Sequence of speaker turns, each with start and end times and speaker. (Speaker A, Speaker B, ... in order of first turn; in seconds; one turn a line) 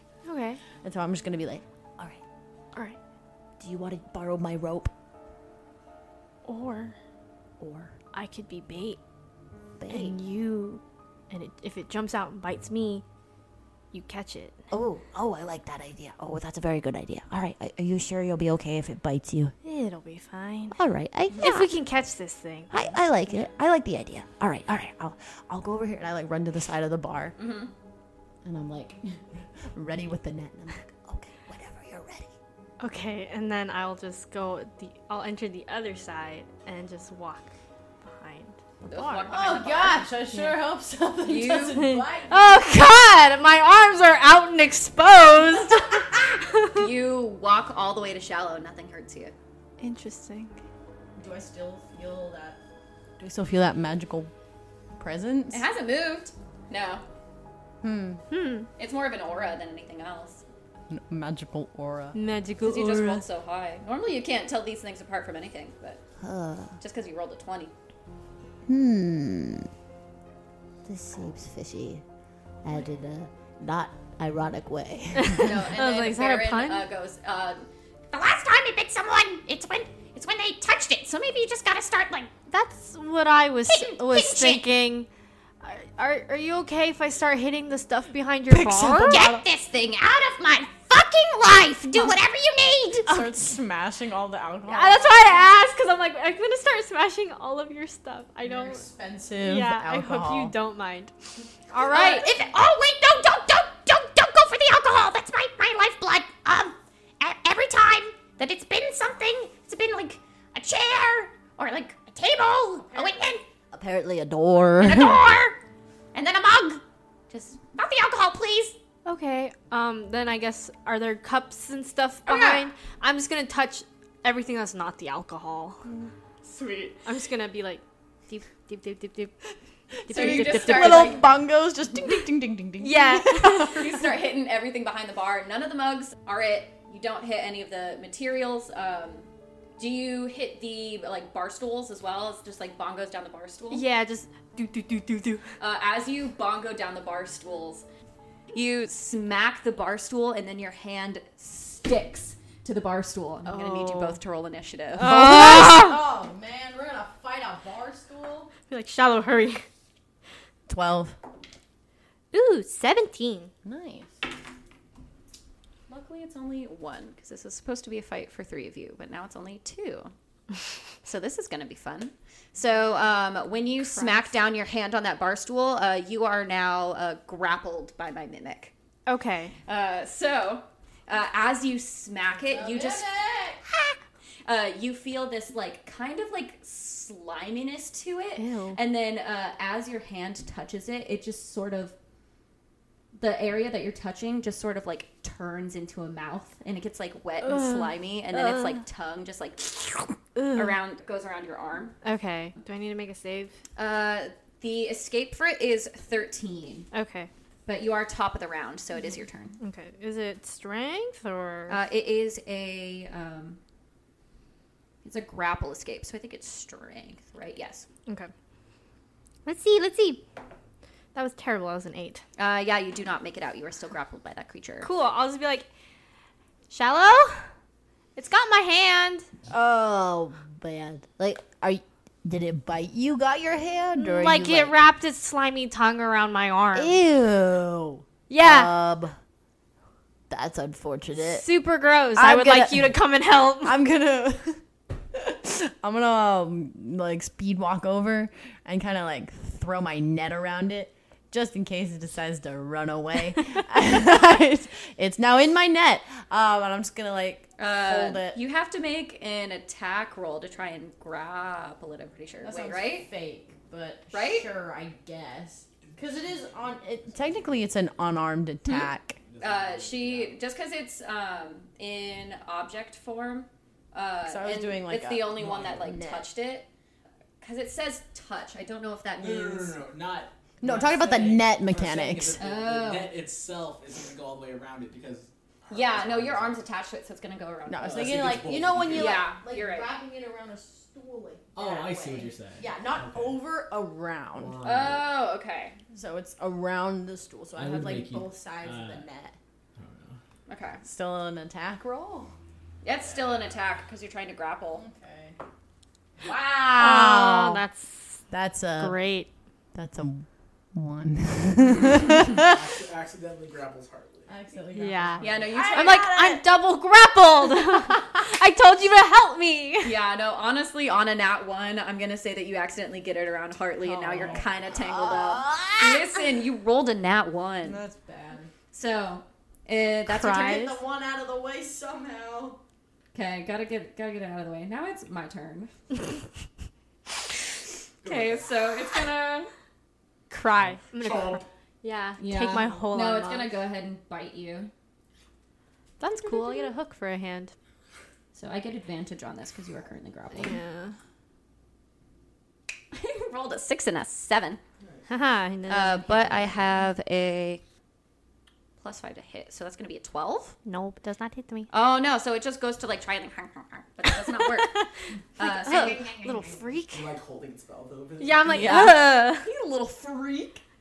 Speaker A: 0.2-0.6
Speaker B: 0.8-1.6
Speaker C: 3.6-4.9
Speaker A: 6.5-7.0
Speaker C: 7.6-8.0
Speaker A: 8.1-9.0
Speaker C: 9.8-10.2
Speaker A: 9.9-13.0
Speaker A: 13.9-14.6
Speaker C: 14.7-19.5
Speaker A: 19.6-20.8
Speaker C: 20.7-21.7
Speaker A: 21.4-22.9
Speaker C: 22.7-26.0
Speaker B: 25.9-27.4
Speaker D: 27.4-27.7
Speaker B: 28.4-30.8
Speaker C: 30.8-32.3
Speaker A: 32.8-37.5
Speaker A: 38.0-39.5
Speaker D: 38.9-40.0
Speaker B: 39.3-42.6
Speaker A: 40.3-40.6
Speaker D: 41.2-41.8
Speaker A: 41.7-46.0
Speaker D: 46.7-49.3
Speaker A: 49.8-50.6
Speaker B: 51.2-52.6
Speaker B: 53.2-54.3
Speaker B: 55.0-55.6
Speaker D: 55.5-57.0
Speaker B: 57.8-58.2
Speaker A: 58.3-58.7
Speaker D: 58.8-60.5
Speaker B: 60.9-62.2
Speaker A: 62.1-63.2
Speaker D: 62.6-66.0
Speaker C: 66.2-66.8
Speaker D: 66.8-67.7
Speaker C: 68.7-69.7
Speaker C: 70.8-72.0
Speaker C: 72.6-75.5
Speaker A: 75.2-76.9
Speaker D: 75.4-82.3
Speaker A: 82.5-85.1
Speaker D: 83.7-84.7
Speaker A: 85.6-89.3
Speaker B: 88.5-89.4
Speaker D: 89.1-93.1
Speaker B: 93.1-95.4
Speaker A: 93.1-93.4
Speaker A: 94.7-98.9
Speaker B: 98.4-100.5
Speaker A: 99.4-101.1
Speaker A: 101.7-102.3
Speaker D: 101.8-113.4
Speaker B: 112.9-113.2
Speaker C: 113.7-115.2
Speaker D: 114.8-115.6
Speaker D: 116.1-118.8
Speaker A: 119.0-125.8
Speaker D: 122.3-122.7
Speaker A: 126.4-129.3
Speaker A: 130.1-131.2
Speaker B: 130.1-133.8
Speaker D: 130.1-131.3
Speaker A: 132.8-133.9
Speaker D: 133.7-143.9
Speaker A: 143.7-145.4
Speaker D: 145.6-147.8
Speaker D: 148.5-155.1
Speaker A: 153.4-154.2
Speaker A: 154.9-156.0
Speaker B: 155.0-158.5
Speaker A: 158.6-159.7
Speaker B: 160.7-161.2
Speaker A: 162.3-163.5
Speaker B: 163.7-164.1
Speaker D: 165.9-170.1
Speaker D: 171.0-178.7
Speaker A: 173.8-174.3
Speaker A: 179.1-179.6
Speaker D: 179.7-183.1
Speaker B: 182.3-183.6
Speaker D: 183.7-192.0
Speaker A: 188.4-188.8
Speaker D: 193.2-201.9
Speaker A: 197.4-198.8
Speaker A: 200.3-200.8
Speaker A: 202.0-203.6
Speaker D: 203.8-206.9
Speaker A: 206.9-207.3
Speaker D: 207.7-209.6
Speaker A: 209.6-211.8
Speaker D: 211.7-213.6
Speaker D: 215.0-217.9
Speaker A: 219.4-220.2
Speaker A: 221.1-222.2
Speaker D: 222.4-224.9
Speaker A: 224.8-225.7
Speaker A: 226.7-227.5
Speaker A: 228.2-229.3
Speaker C: 229.5-234.8
Speaker A: 234.0-237.0
Speaker C: 236.7-239.2
Speaker A: 238.3-238.8
Speaker C: 240.3-241.4
Speaker A: 241.2-243.8
Speaker B: 242.2-243.0
Speaker B: 243.6-244.6
Speaker B: 245.1-258.4
Speaker D: 257.6-263.1
Speaker B: 262.4-269.2
Speaker D: 264.1-264.5
Speaker E: 269.3-270.4
Speaker D: 269.4-276.7
Speaker B: 274.2-276.3
Speaker E: 275.4-275.8
Speaker D: 277.4-279.8
Speaker E: 279.2-286.6
Speaker B: 280.6-282.4
Speaker D: 282.4-283.1
Speaker D: 285.7-288.3
Speaker B: 287.7-294.6
Speaker E: 287.8-289.2
Speaker D: 288.9-289.9
Speaker E: 291.6-293.4
Speaker E: 294.4-295.1
Speaker D: 294.6-295.8
Speaker B: 295.9-299.4
Speaker E: 297.6-299.1
Speaker E: 299.8-300.2
Speaker D: 300.5-300.8
Speaker B: 300.8-302.3
Speaker D: 302.8-304.9
Speaker E: 303.0-303.6
Speaker B: 304.8-305.4
Speaker B: 306.2-307.6
Speaker A: 306.7-308.2
Speaker B: 308.3-309.0
Speaker A: 308.8-309.3
Speaker B: 309.7-312.6
Speaker E: 312.2-314.3
Speaker B: 314.3-316.4
Speaker A: 314.7-320.0
Speaker D: 315.2-316.1
Speaker D: 319.8-327.8
Speaker B: 323.8-325.8
Speaker C: 325.1-326.0
Speaker B: 327.6-328.5
Speaker D: 328.7-330.7
Speaker A: 330.1-330.8
Speaker B: 330.4-332.6
Speaker D: 333.1-335.7
Speaker E: 338.0-338.5
Speaker D: 338.0-339.5
Speaker A: 340.3-343.5
Speaker E: 340.5-341.5
Speaker D: 342.2-344.7
Speaker A: 346.0-347.5
Speaker D: 346.2-346.7
Speaker D: 348.3-350.6
Speaker A: 350.3-351.0
Speaker D: 352.9-354.6
Speaker A: 355.1-356.6
Speaker D: 355.7-357.6
Speaker D: 358.8-360.6
Speaker A: 360.6-361.7
Speaker D: 361.7-364.9
Speaker A: 364.1-364.9
Speaker D: 365.4-366.6
Speaker A: 365.4-367.1
Speaker E: 366.9-369.0
Speaker A: 368.2-369.5
Speaker D: 368.5-370.6